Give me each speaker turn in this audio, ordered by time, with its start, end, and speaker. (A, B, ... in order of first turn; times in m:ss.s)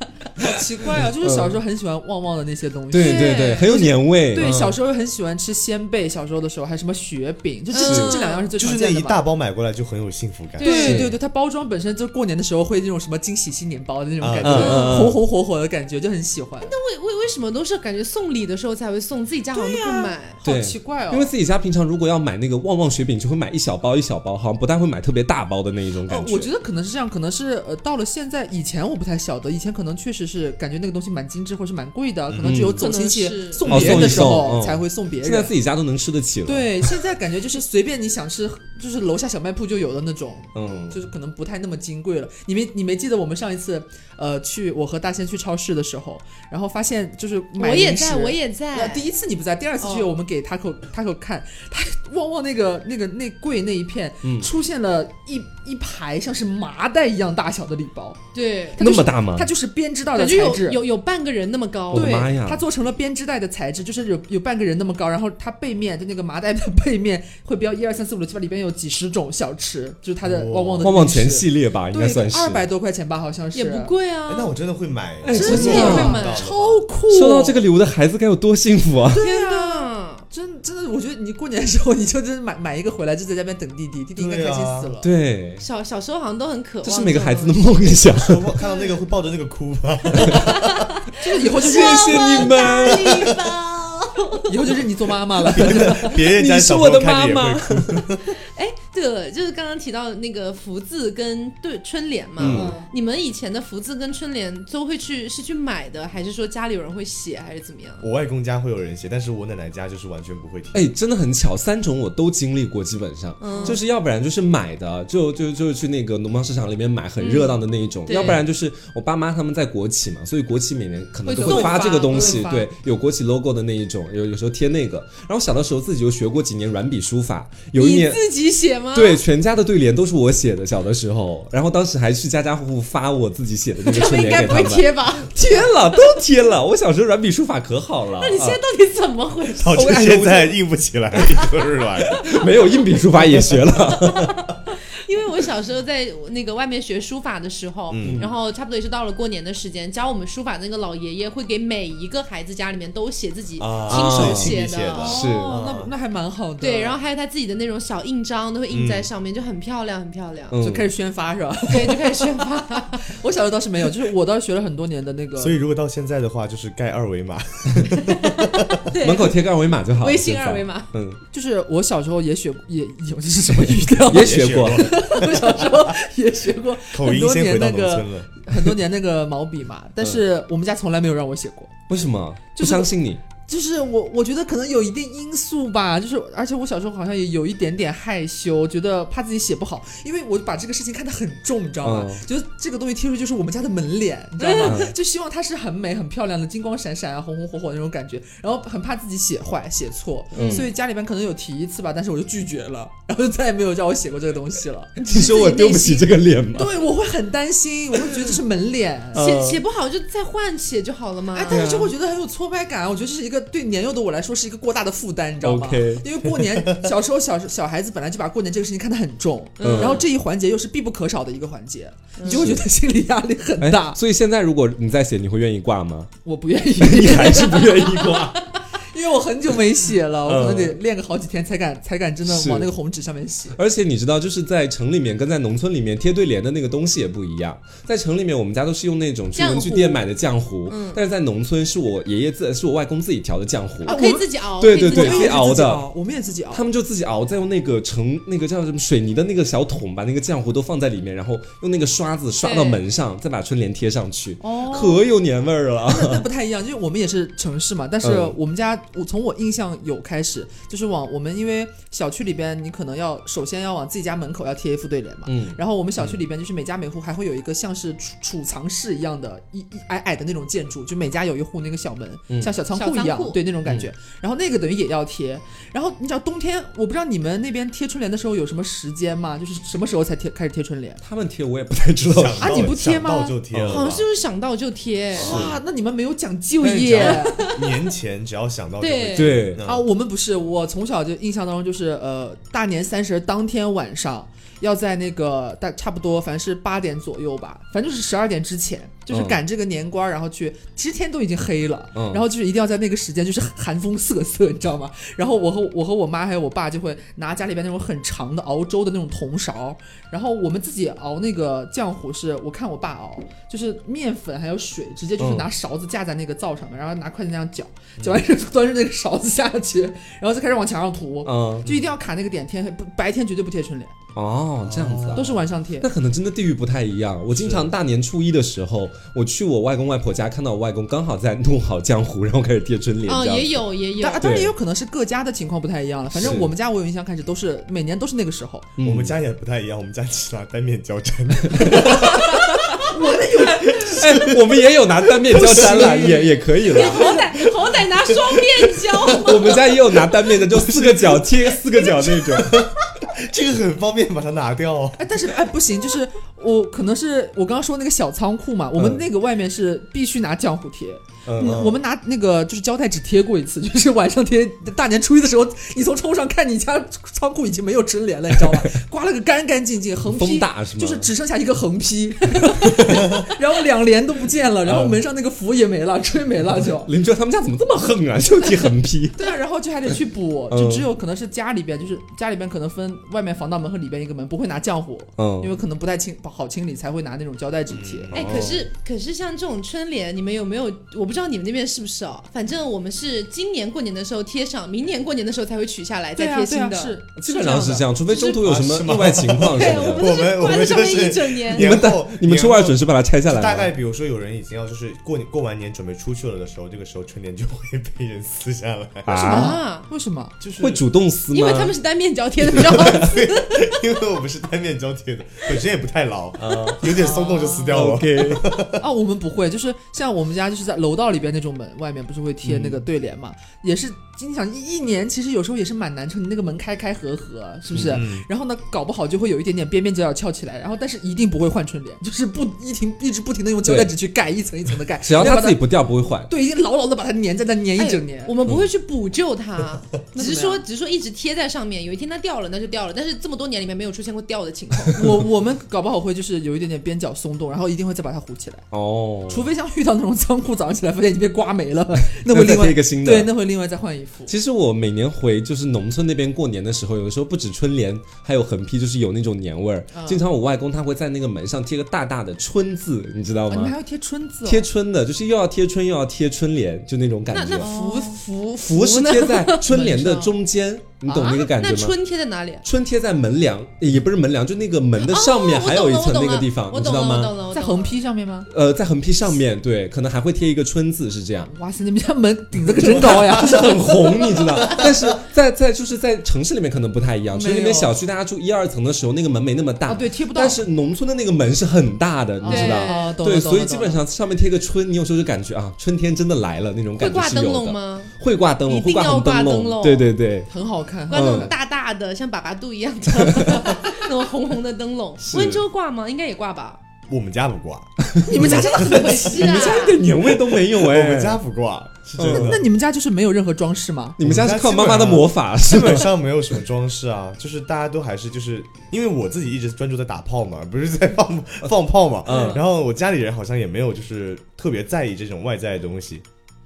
0:00.4-0:09.2 A
0:00.4-0:01.6 B
0:02.9-0:04.8 B
0:03.0-0:03.7 C
0:07.7-0:08.5 C
0:07.8-0:08.2 B
0:08.6-0:11.0 D
0:10.6-0:11.0 C
0:10.6-0:16.7 A
0:10.7-0:11.2 B
0:14.2-0:15.1 D
0:14.4-0:15.2 B
0:14.6-0:14.9 C
0:16.6-0:20.4 C
0:19.5-0:21.3 A
0:20.4-0:26.5 B
0:26.1-0:35.5 A
0:32.3-0:32.7 D
0:32.4-0:32.9 B
0:32.8-0:34.1 C
0:33.6-0:37.0 B
0:33.7-0:34.0 D
0:36.5-0:58.2 A
0:40.6-0:41.0 B
0:47.6-0:49.1 C
0:49.8-0:50.1 C
0:54.2-0:54.5 B
0:58.3-0:58.9 C
0:58.8-1:00.8 A
0:58.8-0:59.5 B
1:00.2-1:02.3 C
1:01.9-1:02.6 B
1:01.9-1:13.9 A
1:10.2-1:11.0 D
1:10.8-1:12.7 B
1:13.5-1:14.6 C
1:14.3-1:16.9 D
1:15.2-1:16.2 B
1:15.3-1:17.6 A
1:15.4-1:16.5 C
1:17.1-1:19.2 B
1:19.1-1:25.1 A
1:19.2-1:20.3 C
1:24.2-1:24.9 D
1:25.0-1:25.6 B
1:25.6-1:27.8 C
1:26.8-1:28.5 B
1:28.2-1:30.7 D
1:28.6-1:28.9 C
1:30.2-1:34.7 C
1:31.2-1:32.8 A
1:31.6-1:33.2 B
1:34.5-1:36.2 A
1:35.5-1:38.3 D
1:35.6-1:38.0 B
1:38.4-1:48.1 C
1:42.4-1:42.8 B
1:42.4-1:42.7 D
1:42.5-1:42.9 A
1:48.0-1:50.9 D
1:50.7-2:08.3 B
1:53.4-1:53.8 C
1:53.5-1:53.8 A
1:57.2-1:58.4 C
2:01.3-2:02.5 C
2:01.3-2:02.7 A
2:07.8-2:09.2 C
2:08.9-2:18.6 B
2:13.8-2:15.4 C
2:18.2-2:19.9 C
2:19.6-2:22.4 D
2:19.7-2:20.6 B
2:22.1-2:24.4 B
2:24.1-2:35.2 C
2:27.9-2:28.3 D
2:28.0-2:28.3 B
2:33.6-2:35.9 D
2:33.9-2:35.6 B
2:35.0-2:37.0 A
2:36.6-2:40.6 C
2:38.7-2:39.1 D
2:40.5-2:40.9 B
2:40.6-2:45.6 A
2:41.7-2:43.1 C
2:45.4-2:48.8 D
2:48.0-2:49.4 C
2:49.0-2:51.2 B
2:50.0-2:50.9 C
2:51.3-3:01.8 A
2:53.5-2:54.9 B
2:54.1-2:56.0 D
2:56.9-2:58.3 D
3:01.9-3:03.2 B
3:02.6-3:25.0 A
3:11.8-3:12.2 B
3:14.4-3:14.9 C
3:14.6-3:14.9 B
3:20.3-3:20.7 B
3:20.4-3:20.7 C
3:25.0-3:26.1 C
3:25.0-3:26.8 B
3:26.5-3:29.3 A
3:29.1-3:29.6 B
3:29.1-3:31.7 C
3:31.3-3:44.0 A
3:31.5-3:31.9 B
3:35.4-3:36.1 B
3:36.5-3:36.9 D
3:39.6-3:40.0 C
3:39.6-3:40.0 B
3:42.2-3:42.5 C
3:42.2-3:42.7 B
3:43.6-3:46.1 B
3:46.2-3:48.2 A
3:46.8-3:48.4 B
3:48.9-3:53.6 A
3:50.2-3:50.8 B
3:52.2-3:52.7 B
3:53.6-4:04.0 B
3:59.4-4:00.0 C
4:00.7-4:01.0 C
4:03.8-4:04.3 A
4:03.8-4:05.4 C
4:04.6-4:05.8 B
4:04.8-4:06.6 A
4:06.5-4:16.2 B
4:12.4-4:12.8 C
4:14.4-4:15.0 A
4:15.9-4:41.0 A
4:18.0-4:18.4 B
4:25.3-4:25.6 B
4:32.7-4:33.4 C
4:33.6-4:33.9 B
4:41.0-4:42.8 B
4:42.0-4:44.1 D
4:42.4-4:43.4 A
4:43.5-4:43.9 B
4:43.7-4:45.4 C
4:45.2-4:45.5 D
4:45.2-4:45.6 B
4:45.2-4:47.6 A
4:46.6-4:49.9 D
4:46.6-4:47.0 B
4:47.0-4:47.7 C
4:48.8-4:49.4 C
4:49.2-4:49.6 B
4:49.6-5:24.0 A
4:59.1-4:59.4 B
5:02.0-5:02.3 B
5:15.2-5:15.5 B
5:21.2-5:21.7 B
5:24.2-5:33.6 B
5:24.6-5:25.4 D
5:25.1-5:25.9 A
5:27.3-5:27.7 D
5:33.1-5:34.2 C
5:34.0-5:38.7 A
5:34.2-5:34.5 B
5:36.1-5:36.5 B
5:38.8-5:39.2 B
5:38.8-5:42.5 D
5:41.5-5:42.0 B
5:41.9-5:42.1 A
5:42.7-5:44.3 A
5:43.4-5:44.4 D
5:43.8-5:47.2 B
5:45.2-5:47.2 A
5:45.3-5:46.0 D
5:46.6-5:49.6 C
5:49.2-5:52.7 B
5:50.0-5:55.1 D
5:55.0-6:16.9 A
5:58.8-5:59.1 B
6:01.3-6:01.7 B
6:01.4-6:01.8 D
6:08.4-6:08.7 B
6:10.0-6:11.1 B
6:14.7-6:15.0 B
6:16.8-6:19.2 B
6:19.2-6:28.1 A
6:20.5-6:20.9 B
6:25.2-6:25.6 B
6:27.7-6:28.5 D
6:28.1-6:28.6 B
6:28.1-6:37.0 C
6:36.2-6:37.9 A
6:37.2-6:40.1 B
6:38.1-6:38.4 C
6:38.2-6:49.2 D
6:39.4-6:41.8 C
6:41.5-6:43.7 B
6:49.0-6:49.6 B
6:49.1-6:49.9 C
6:49.2-6:50.4 A
6:50.4-6:50.8 D
6:50.6-6:51.8 B
6:51.3-6:53.8 C
6:52.5-6:58.8 D
6:52.5-6:53.0 B
6:56.4-6:56.9 B
6:57.0-6:57.7 A
6:57.7-6:58.5 B
6:58.8-7:15.6 A
7:02.4-7:02.8 B
7:07.7-7:08.0 B
7:07.8-7:08.3 D
7:13.6-7:13.9 B
7:15.0-7:16.3 B
7:16.3-7:18.4 A
7:17.8-7:25.1 C
7:20.1-7:20.6 A
7:25.0-7:28.7 A
7:28.7-7:29.5 B
7:29.3-7:34.3 A
7:32.1-7:33.3 B
7:34.3-7:43.8 B
7:39.9-7:40.2 A
7:43.5-7:44.7 A
7:44.4-7:47.7 B
7:47.3-7:50.0 C
7:47.6-7:48.2 A
7:48.6-7:52.0 B
7:49.7-7:50.3 A
7:51.1-7:51.5 A
7:51.4-7:52.6 C
7:52.6-7:57.4 B
7:55.0-7:58.0 C
7:57.5-7:58.5 A
7:58.5-8:01.5 B
8:01.5-8:04.9 A
8:02.8-8:20.5 B
8:07.3-8:08.0 A
8:09.9-8:10.6 A
8:12.4-8:14.0 A
8:12.4-8:13.2 C
8:17.0-8:18.1 C
8:18.7-8:20.2 C
8:20.5-8:21.6 A
8:21.1-8:26.8 C
8:21.1-8:21.5 B
8:23.2-8:23.6 B
8:25.2-8:25.6 B
8:27.1-8:29.1 D
8:28.1-8:28.6 B
8:28.3-8:30.0 A
8:28.4-8:30.0 C
8:29.2-8:31.4 B
8:30.4-8:32.6 D
8:32.2-8:32.6 B
8:32.3-8:34.2 A
8:34.2-8:36.1 B
8:34.2-8:46.2 D
8:42.3-8:42.6 C
8:42.3-8:42.6 A
8:42.3-8:42.6 B